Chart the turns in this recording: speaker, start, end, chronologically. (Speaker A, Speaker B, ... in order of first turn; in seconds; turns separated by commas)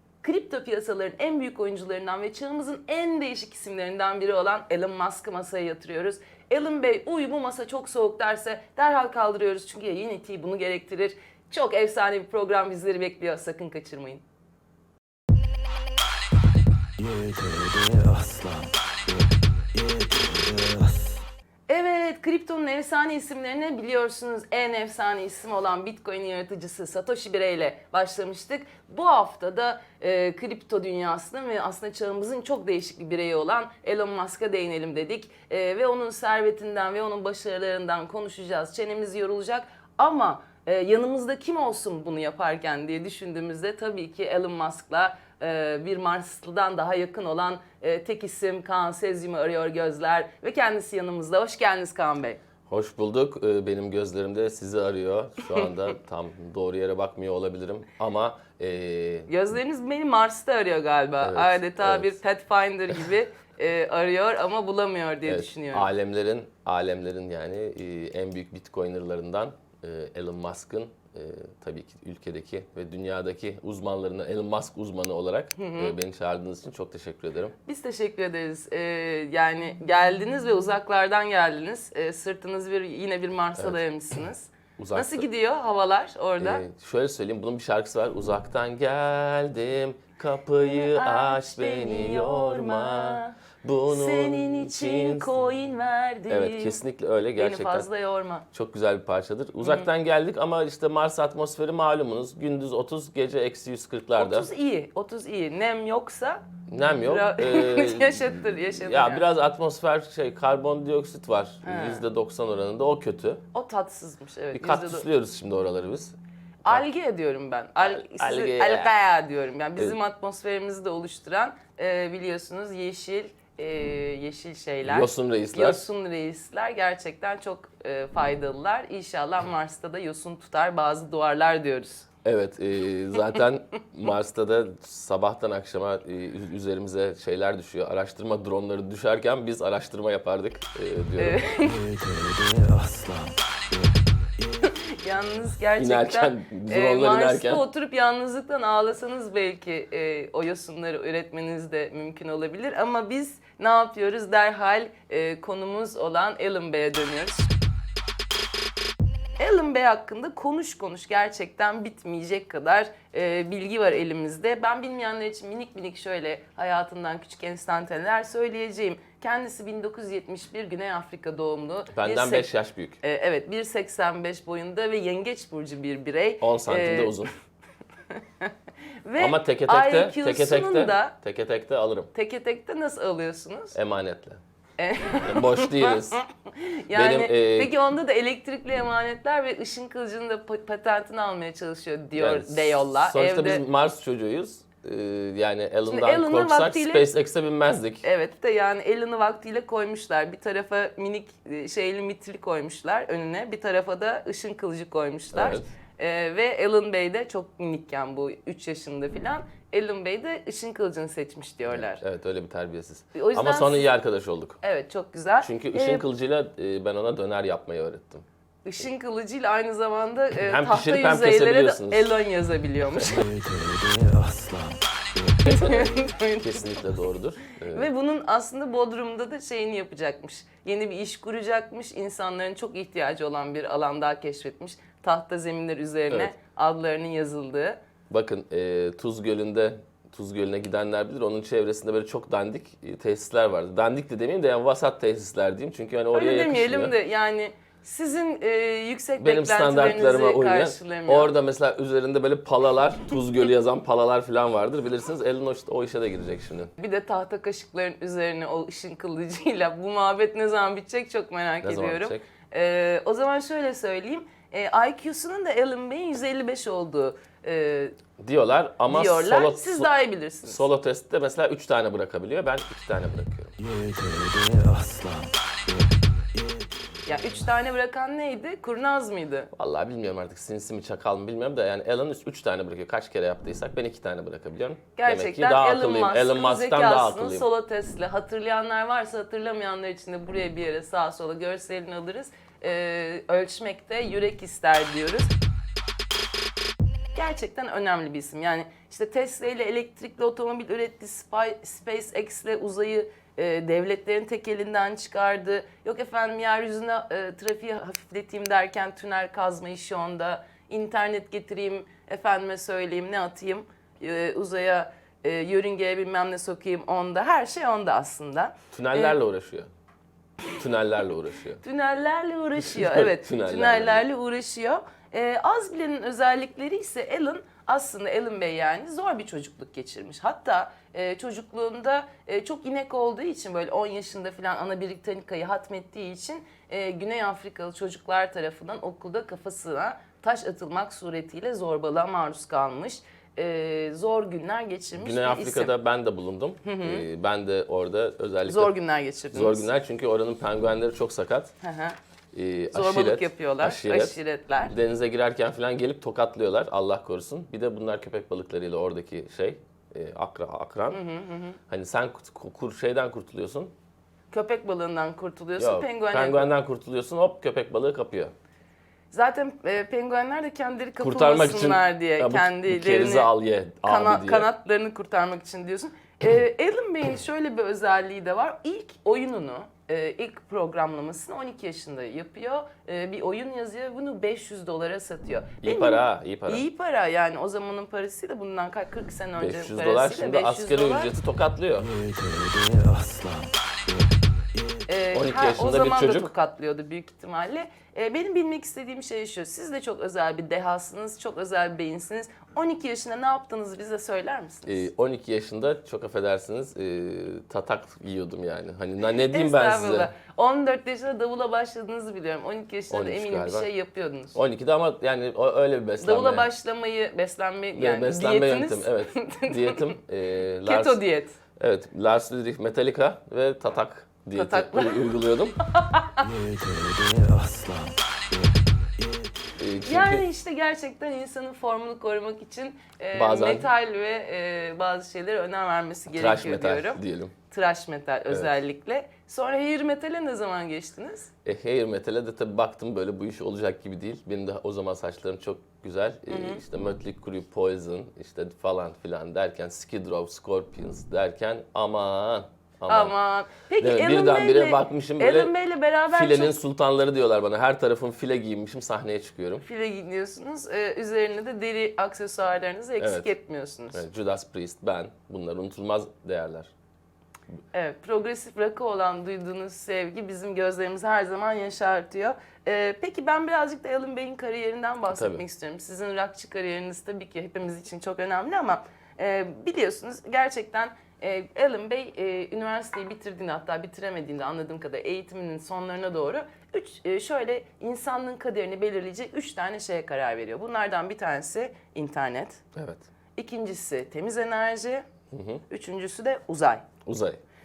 Speaker A: 0.2-14.2, Speaker B: 17.0-21.2, Speaker A: 21.7-52.4, Speaker C: 52.7-59.3, Speaker A: 59.3-65.9, Speaker C: 61.2-62.2, Speaker C: 65.3-77.5, Speaker A: 75.5-75.9, Speaker A: 77.7-86.6, Speaker C: 84.8-85.3, Speaker C: 86.4-95.5, Speaker A: 90.7-93.4, Speaker A: 93.9-96.8, Speaker C: 96.3-97.9, Speaker A: 97.4-98.5, Speaker C: 98.5-104.5, Speaker A: 104.2-109.2, Speaker C: 106.7-113.4, Speaker A: 111.6-112.0, Speaker A: 113.5-115.1, Speaker C: 114.5-116.2, Speaker A: 116.6-132.1, Speaker C: 117.8-118.9, Speaker C: 124.8-125.9, Speaker C: 132.2-141.4, Speaker A: 141.2-141.8, Speaker B: 141.6-144.6, Speaker A: 144.6-157.5, Speaker C: 145.8-147.6, Speaker A: 159.4-172.5, Speaker C: 171.9-173.0, Speaker A: 173.0-177.3, Speaker C: 176.4-177.3, Speaker A: 178.1-178.5, Speaker A: 179.0-181.1, Speaker C: 179.2-182.1, Speaker A: 182.1-183.8, Speaker C: 183.7-184.4, Speaker A: 184.8-193.6, Speaker C: 185.2-186.2, Speaker C: 186.9-187.7, Speaker C: 192.2-198.0, Speaker A: 195.9-197.1, Speaker A: 198.0-212.0, Speaker C: 205.3-205.7, Speaker C: 211.7-214.6, Speaker A: 213.1-213.9, Speaker A: 214.6-216.0, Speaker C: 215.4-218.2, Speaker A: 218.6-223.2, Speaker C: 220.4-222.1, Speaker B: 223.0-225.8, Speaker A: 225.4-226.8, Speaker C: 226.4-227.9, Speaker A: 227.7-237.8, Speaker C: 238.1-246.9, Speaker A: 246.1-251.3, Speaker C: 249.2-256.7, Speaker A: 256.8-267.9, Speaker C: 261.6-262.2, Speaker C: 268.2-269.9, Speaker A: 268.9-270.6, Speaker C: 270.4-273.5, Speaker B: 273.6-276.7, Speaker A: 277.1-279.5, Speaker C: 279.5-287.4, Speaker A: 284.9-295.3, Speaker A: 297.1-319.2, Speaker C: 318.7-319.7, Speaker C: 320.5-321.6, Speaker A: 321.6-345.7, Speaker C: 322.6-324.0, Speaker C: 344.9-348.7, Speaker A: 346.6-347.1, Speaker A: 348.5-349.7, Speaker C: 349.3-351.5, Speaker A: 351.6-352.0, Speaker C: 352.3-354.2, Speaker A: 352.7-354.7, Speaker C: 354.7-361.0, Speaker A: 360.9-361.6, Speaker C: 361.7-363.7, Speaker A: 364.3-366.5, Speaker C: 365.6-368.3, Speaker A: 369.1-373.3, Speaker C: 371.0-374.5, Speaker A: 373.8-391.1, Speaker C: 385.6-386.6, Speaker C: 389.4-391.9, Speaker B: 391.8-394.9, Speaker A: 394.9-404.8, Speaker C: 395.1-396.3, Speaker C: 404.6-410.1, Speaker A: 409.3-414.4, Speaker C: 412.9-413.7, Speaker C: 414.3-416.5, Speaker A: 416.0-419.9, Speaker C: 417.7-421.0, Speaker A: 420.6-421.4, Speaker C: 421.6-425.6, Speaker A: 424.3-425.1, Speaker A: 425.7-426.2, Speaker B: 426.2-429.3, Speaker C: 429.6-430.2, Speaker A: 429.8-441.3, Speaker C: 433.1-433.7, Speaker C: 436.1-437.3, Speaker C: 441.4-453.1, Speaker A: 446.3-446.6, Speaker A: 452.9-456.6, Speaker C: 453.8-455.5, Speaker C: 456.1-459.6, Speaker A: 459.6-464.0, Speaker C: 463.0-463.3, Speaker C: 463.9-466.7, Speaker A: 467.7-492.6, Speaker C: 475.1-475.4, Speaker C: 492.7-493.0, Speaker A: 493.4-495.0, Speaker C: 495.3-495.6, Speaker A: 495.7-496.8, Speaker C: 497.0-497.4